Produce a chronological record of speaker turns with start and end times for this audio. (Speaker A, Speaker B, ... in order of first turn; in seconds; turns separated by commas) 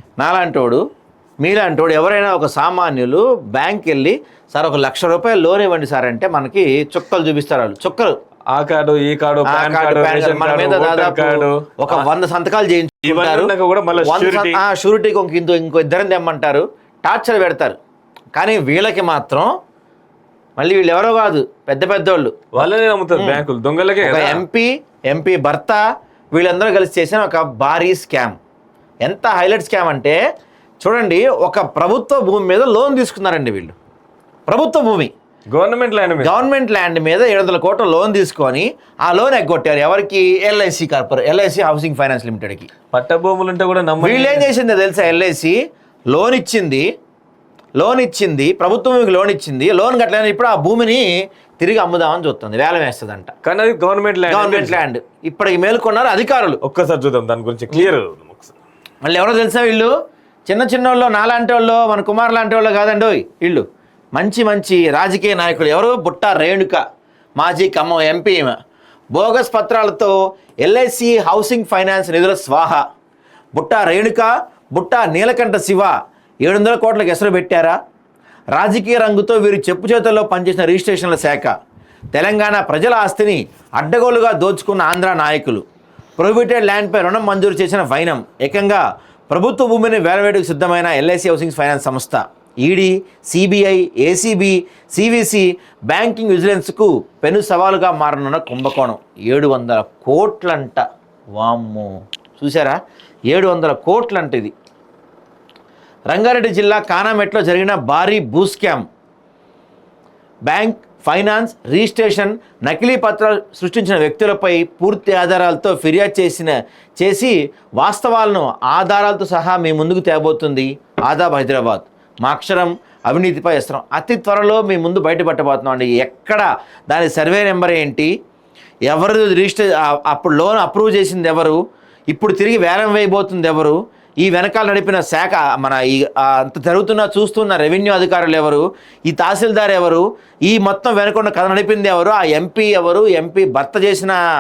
Speaker A: 0.2-0.8, Speaker A: 1.4-8.1, Speaker B: 8.5-12.1, Speaker A: 9.4-17.8, Speaker B: 13.0-14.6, Speaker A: 18.3-19.5, Speaker A: 20.6-22.5, Speaker B: 22.5-24.4, Speaker A: 23.1-23.4, Speaker A: 24.0-25.8, Speaker A: 26.3-28.4, Speaker A: 29.0-30.2, Speaker A: 30.8-33.7, Speaker A: 34.5-35.1, Speaker B: 35.5-36.3, Speaker A: 36.2-42.7, Speaker B: 42.9-44.5, Speaker A: 44.0-45.6, Speaker A: 46.1-46.8, Speaker A: 47.8-51.1, Speaker A: 51.6-53.3, Speaker B: 53.4-54.8, Speaker A: 54.3-56.6, Speaker B: 56.6-58.5, Speaker A: 59.0-59.9, Speaker A: 60.5-63.6, Speaker A: 64.1-66.8, Speaker A: 67.4-68.5, Speaker A: 69.1-72.8, Speaker A: 73.5-75.9, Speaker A: 76.4-77.8, Speaker A: 78.5-81.5, Speaker A: 82.1-85.6, Speaker A: 86.2-102.8, Speaker A: 103.3-104.5, Speaker A: 106.1-108.8, Speaker A: 110.5-128.1, Speaker A: 128.9-131.6, Speaker A: 132.1-144.2